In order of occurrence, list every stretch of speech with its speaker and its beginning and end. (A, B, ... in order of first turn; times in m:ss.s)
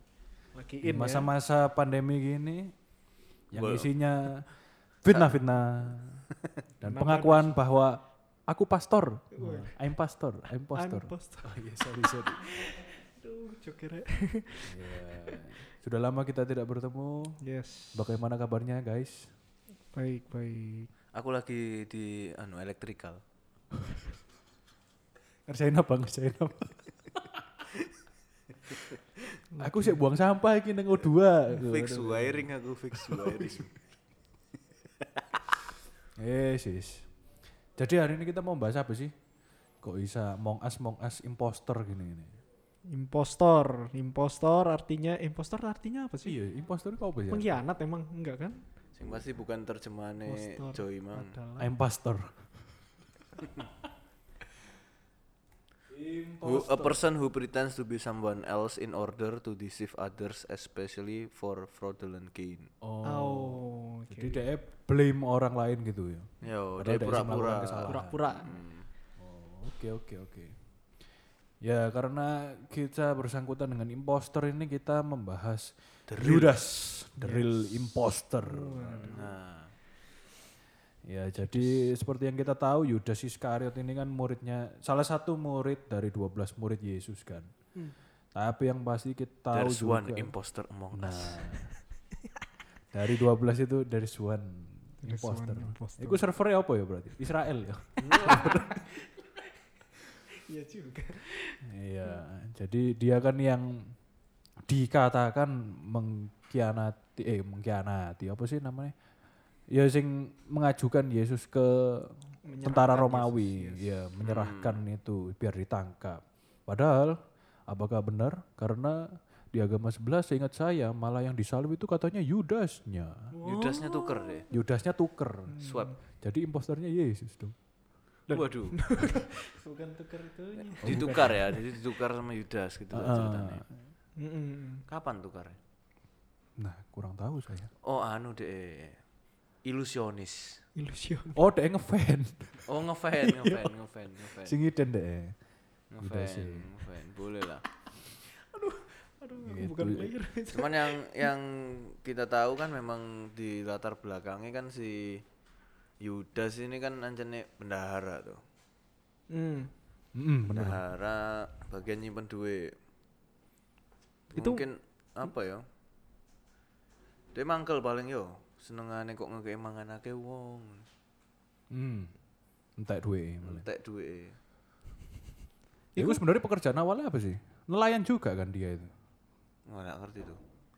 0:00.6-0:01.3 A
0:00.8-0:02.8 B
0:03.5-0:06.3 B
0:03.6-0:03.9 C
0:06.8-0:12.5 B
0:06.8-0:07.6 A
0:09.4-0:09.8 A
0:10.7-0:11.6 A
0:12.4-0:15.4 A
0:14.7-0:17.4 B
0:17.4-0:18.0 A
0:18.0-0:19.3 B
0:19.9-0:20.9 A
0:21.1-0:23.2 C
0:25.5-0:27.4 B
0:29.5-0:30.0 A
0:29.6-0:33.7 B
0:31.6-0:33.8 C
0:36.2-0:37.1 B
0:37.8-0:39.1 B
0:39.8-0:42.4 B
0:42.9-0:46.4 A
0:46.2-0:47.6 B
0:47.3-0:48.7 A
0:49.0-0:51.3 C
0:50.2-0:51.7 A
0:51.6-0:52.8 B
0:55.9-0:57.0 B
0:56.4-1:02.7 C
1:02.8-1:08.2 B
1:03.0-1:04.4 A
1:06.4-1:08.9 C
1:07.9-1:08.6 A
1:09.2-1:10.6 B
1:11.6-1:19.2 B
1:16.1-1:16.6 C
1:17.2-1:17.6 A
1:18.4-1:19.3 A
1:18.9-1:19.7 C
1:21.0-1:27.5 B
1:21.4-1:21.8 A
1:28.4-1:30.3 B
1:29.5-1:31.5 C
1:30.9-1:31.7 B
1:32.9-1:38.8 B
1:35.0-1:36.2 A
1:38.0-1:38.4 C
1:38.1-1:39.2 A
1:40.4-1:42.2 A
1:41.6-1:44.0 B
1:44.6-1:48.9 B
1:49.7-2:03.3 B
1:52.4-1:54.0 A
1:54.2-1:54.8 C
2:03.3-2:04.5 A
2:03.4-2:04.5 C
2:04.5-2:05.6 B
2:05.5-2:06.0 A
2:05.6-2:05.9 C
2:06.2-2:07.6 B
2:08.3-2:11.6 A
2:08.3-2:08.8 C
2:10.8-2:13.7 C
2:10.8-2:11.5 B
2:12.9-2:13.9 B
2:14.2-2:14.8 A
2:14.9-2:15.6 C
2:16.6-2:17.7 B
2:17.8-2:19.0 C
2:19.6-2:20.6 C
2:20.8-2:21.4 A
2:21.4-2:22.6 B
2:22.7-2:24.6 C
2:23.3-2:23.7 B
2:24.4-2:25.4 B
2:25.9-2:27.6 C
2:26.0-2:26.7 B
2:28.3-2:31.3 A
2:29.4-2:30.1 B
2:30.5-2:35.2 C
2:36.0-2:38.4 C
2:39.3-2:39.7 A
2:40.2-2:40.8 B
2:40.5-2:42.8 C
2:44.3-2:45.6 C
2:44.3-2:44.7 A
2:47.3-2:50.9 C
2:51.7-2:52.2 B
2:52.8-2:53.7 B
2:53.4-2:54.4 C
2:56.0-2:56.2 A
2:56.0-2:58.9 B
2:59.7-3:00.4 C